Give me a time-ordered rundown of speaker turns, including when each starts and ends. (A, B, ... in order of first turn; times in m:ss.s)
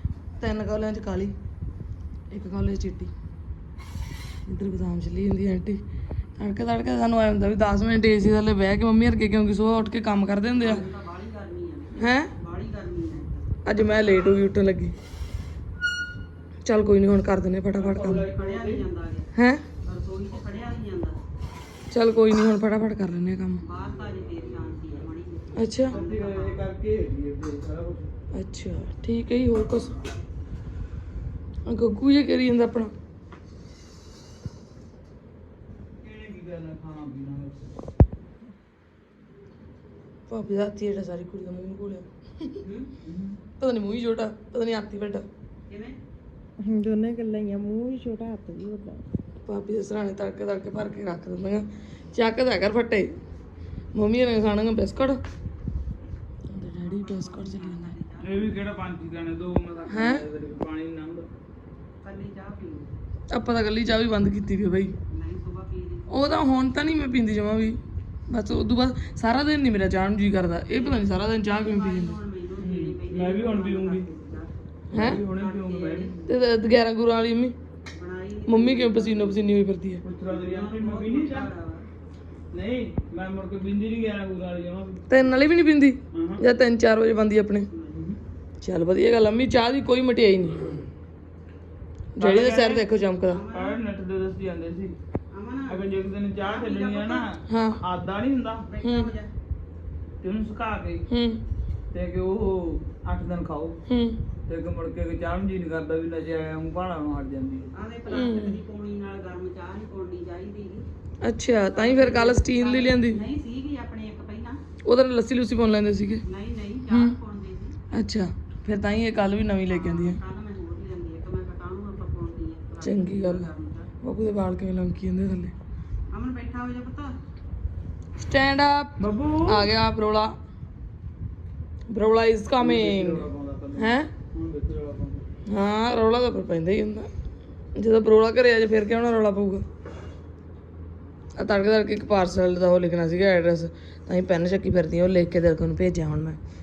0:00.4-0:01.3 A
0:02.3-0:03.1 A
0:04.4-0:05.8 A
0:06.4-0:10.8 A
0:10.5-0:13.4 B
0:12.0-0:12.3 A
0:13.6-0:14.9 A
0:16.6-0:18.2 A
0:17.7-0:18.8 C
0:18.3-0:19.3 B
0:19.3-0:19.6 A
0:19.8-0:21.2 B
0:21.9-0:23.6 A
0:23.6-0:26.6 B
0:23.7-0:25.0 C
0:25.6-0:26.0 A
0:25.8-0:28.1 C
0:28.3-0:29.9 A
0:31.6-0:32.9 A
0:36.0-0:37.7 C
0:40.3-0:42.6 A
0:42.6-0:42.9 B
0:43.0-0:43.4 C
0:43.6-0:45.2 A
0:45.7-0:46.0 B
0:46.8-0:48.9 D
0:49.4-0:53.1 A
0:53.9-0:55.2 A
0:56.5-0:57.8 D
0:56.8-0:58.6 B
0:58.2-1:01.3 C
0:59.9-1:00.2 A
1:02.0-1:02.9 B
1:03.3-1:04.9 A
1:05.1-1:06.2 B
1:06.1-1:07.8 A
1:08.3-1:12.2 A
1:10.7-1:14.5 B
1:12.6-1:14.1 C
1:14.9-1:16.2 C
1:14.9-1:15.2 A
1:15.0-1:16.1 B
1:16.3-1:17.6 A
1:17.9-1:19.4 B
1:18.5-1:20.0 A
1:20.0-1:21.5 C
1:20.2-1:21.9 B
1:22.5-1:25.0 C
1:25.1-1:27.7 A
1:26.1-1:26.4 C
1:27.7-1:28.0 B
1:27.9-1:28.2 C
1:28.6-1:30.7 A
1:32.2-1:33.4 A
1:32.2-1:32.7 C
1:32.7-1:33.8 B
1:33.5-1:35.0 C
1:35.3-1:35.8 B
1:35.7-1:38.7 C
1:36.4-1:37.2 B
1:37.5-1:37.8 A
1:38.7-1:39.3 B
1:38.8-1:39.1 A
1:40.2-1:41.0 C
1:41.1-1:41.4 A
1:41.9-1:43.8 C
1:43.9-1:44.2 A
1:44.5-1:47.7 C
1:47.7-1:50.8 B
1:48.1-1:48.6 A
1:51.2-1:53.2 A
1:51.7-1:54.6 B
1:54.8-1:56.2 A
1:56.3-1:57.8 B
1:56.9-1:57.2 A
1:57.9-2:00.2 A
1:59.7-2:03.9 B
2:02.8-2:03.5 A
2:04.0-2:05.5 A
2:06.1-2:07.1 B
2:08.2-2:08.9 A
2:09.0-2:09.7 C
2:09.5-2:10.3 A
2:11.9-2:13.3 A
2:12.6-2:15.2 C
2:13.8-2:14.1 A
2:15.5-2:17.1 A
2:17.7-2:19.6 A
2:21.4-2:26.4 A